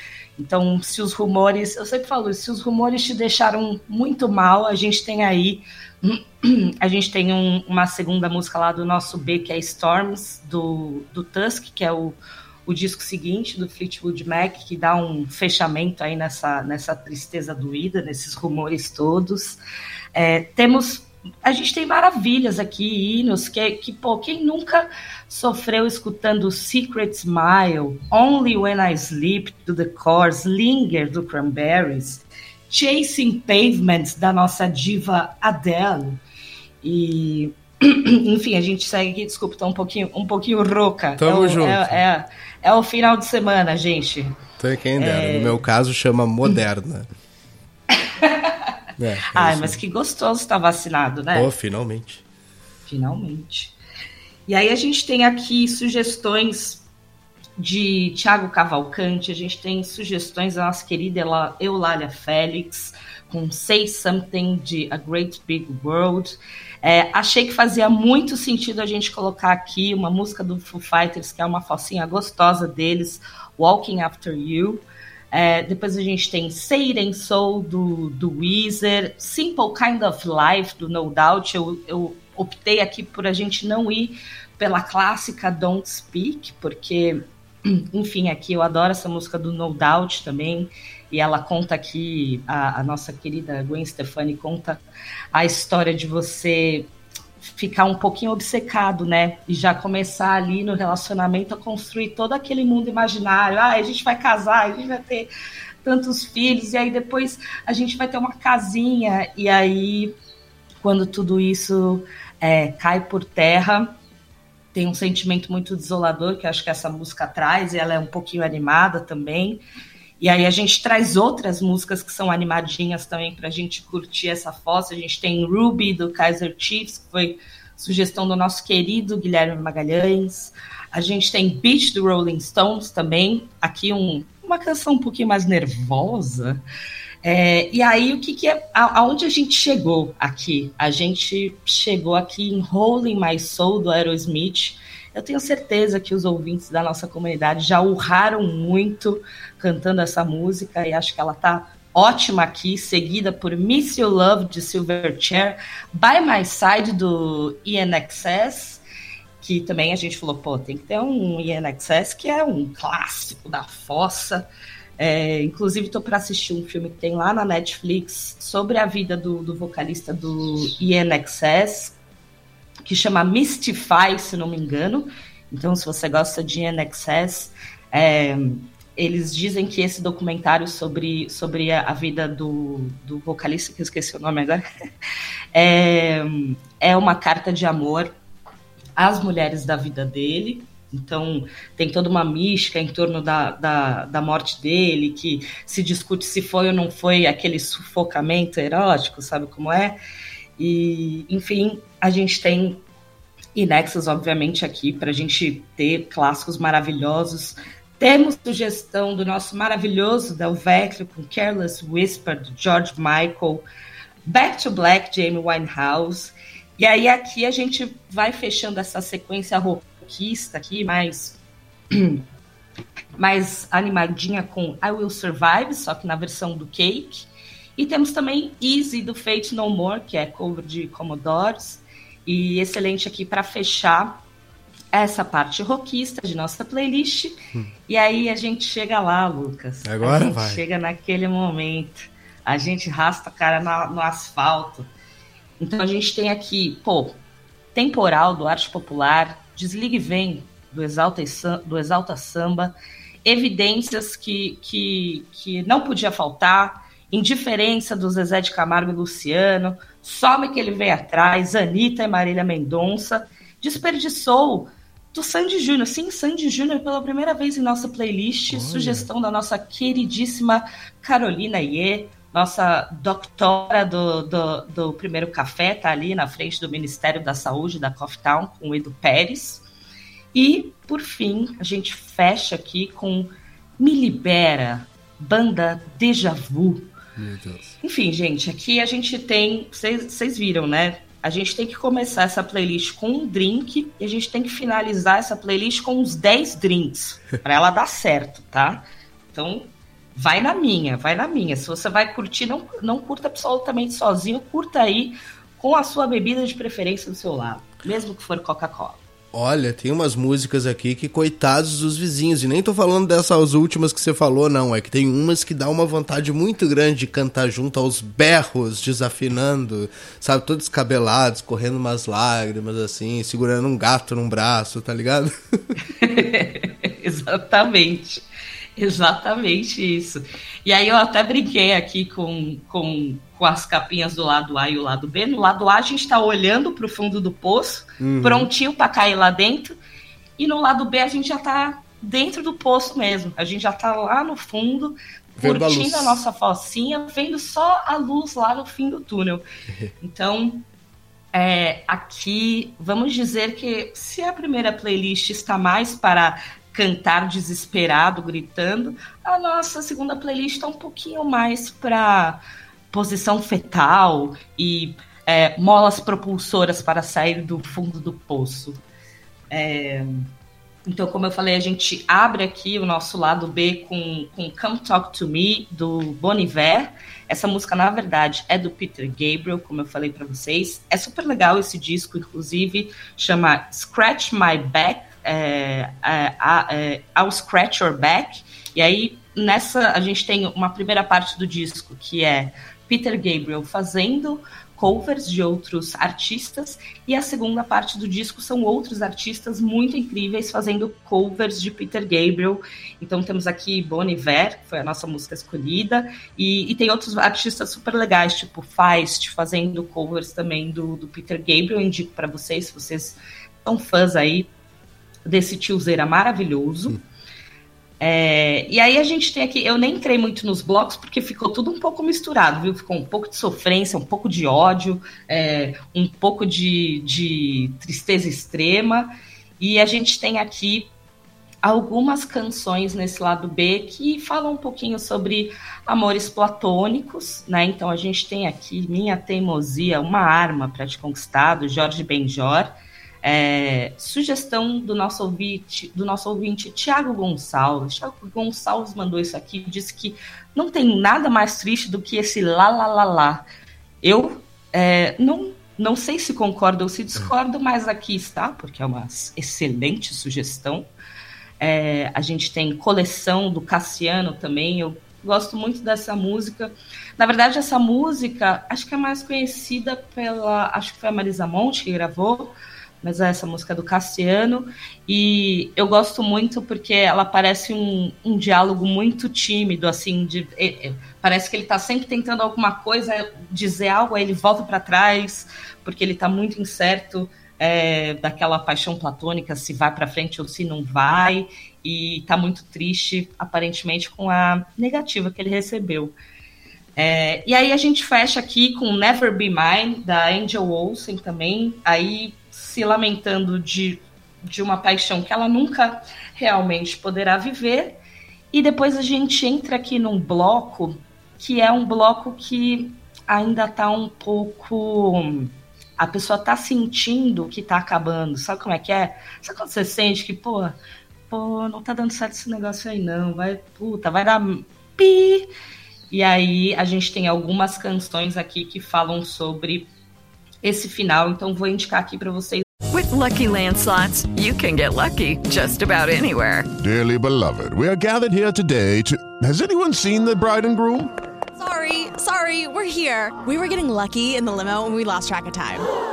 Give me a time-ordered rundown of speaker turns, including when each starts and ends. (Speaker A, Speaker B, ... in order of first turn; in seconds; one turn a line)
Speaker A: 0.4-19.6
Speaker A: 20.1-36.2
Speaker A: 36.8-44.4
Speaker B: 41.2-42.0
Speaker B: 44.6-47.1
Speaker A: 45.0-45.6
Speaker A: 48.2-48.5
Speaker B: 49.0-49.8
Speaker A: 49.3-51.5
Speaker B: 51.3-52.2
Speaker A: 52.9-53.7
Speaker A: 54.5-56.8
Speaker A: 57.6-94.8
Speaker A: 95.3-96.9
Speaker A: 97.4-105.3
Speaker A: 105.8-110.1
Speaker A: 110.8-113.9
Speaker A: 114.7-119.6
Speaker A: 120.2-136.6
Speaker A: 137.2-158.8
Speaker A: 159.4-164.5
Speaker A: 165.0-171.9
Speaker A: 172.8-184.6
Speaker A: 185.5-188.1
Speaker A: 189.0-200.0
Speaker A: 200.6-202.8
Speaker A: 203.5-213.7
Speaker A: 214.2-221.4
Speaker A: 221.9-222.2
Speaker A: 223.2-234.2
Speaker A: 234.9-244.9
Speaker B: 239.8-240.6
Speaker A: 245.6-247.2
Speaker A: 247.7-279.6
Speaker B: 268.5-269.1
Speaker A: 280.3-286.9
Speaker B: 287.1-287.8
Speaker A: 287.8-309.0
Speaker B: 309.3-325.3
Speaker A: 326.0-328.2
Speaker A: 328.8-339.8
Speaker B: 338.0-338.5
Speaker A: 340.4-349.4
Speaker B: 345.4-346.2
Speaker A: 350.0-350.6
Speaker A: 351.3-368.8
Speaker A: 369.5-370.3
Speaker A: 370.9-414.5
Speaker A: 415.2-416.9
Speaker A: 418.0-430.9
Speaker A: 431.6-453.4
Speaker A: 454.0-460.9
Speaker A: 461.6-496.1
Speaker A: 497.0-508.0
Speaker A: 508.5-520.8
Speaker A: 521.3-525.5
Speaker A: 526.1-529.9
Speaker A: 530.6-532.6
Speaker C: 532.9-536.7
Speaker D: 536.8-541.1
Speaker E: 541.6-545.8